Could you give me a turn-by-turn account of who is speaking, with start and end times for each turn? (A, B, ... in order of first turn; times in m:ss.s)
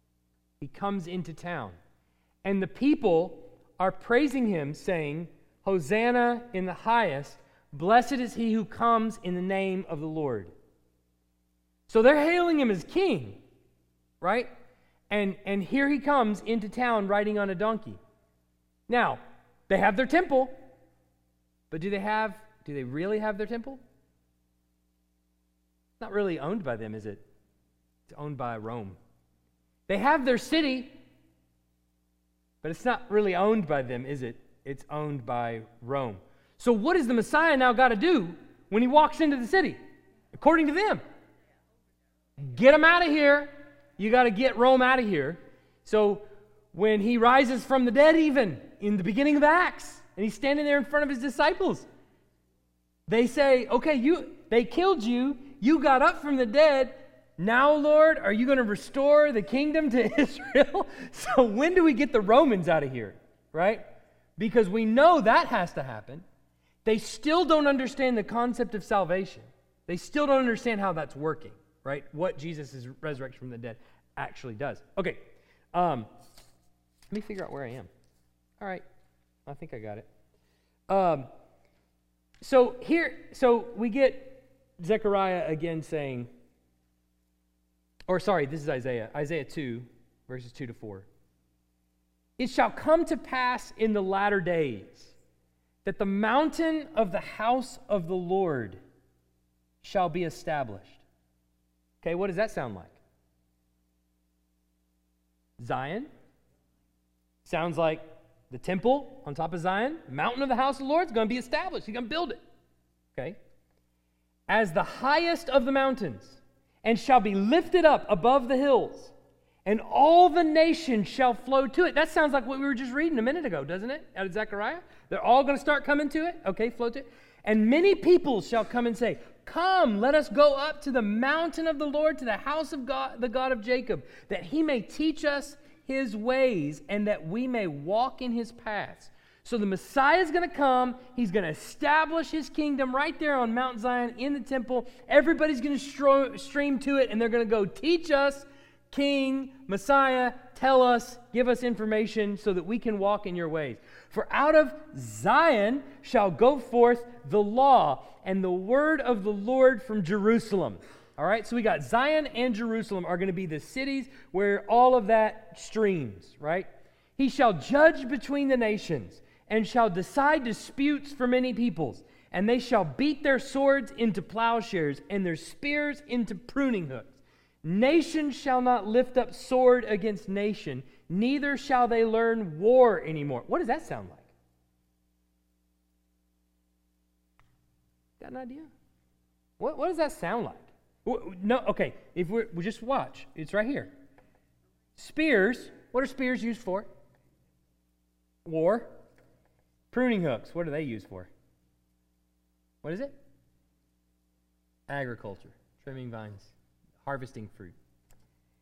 0:00.6-0:01.8 A
0:02.4-0:10.5 A
0:11.9-0:13.4 A
0:14.2-0:14.5 A
0:15.1-0:18.0 A
0:18.9-0:20.6 A
0:21.7-0:23.8 A
0:26.0-0:27.2 A
0:28.1-0:29.0 A
0:29.9-0:30.9 A
0:32.6-0:39.8 A
0:40.3-0:41.0 A
0:42.4-0:51.9 A
0:53.1-1:03.8 A
1:04.4-1:06.2 A
1:06.8-1:16.1 A
1:17.1-1:17.9 A
1:19.4-1:20.1 A
1:20.9-1:21.3 A
1:22.4-1:26.3 A
1:28.1-1:31.1 A
1:32.4-1:35.1 A
1:35.8-1:38.8 A
1:39.8-1:41.0 A
1:42.0-1:43.0 A
1:45.6-1:46.1 A
1:47.4-1:52.4 A
1:54.5-1:59.1 A
1:59.6-3:04.3 A
3:08.2-3:08.7 A
3:09.6-3:13.9 A
3:15.0-3:16.9 A
3:18.4-3:19.0 A
3:19.9-3:21.3 A
3:22.8-3:23.2 A
3:24.9-3:27.7 A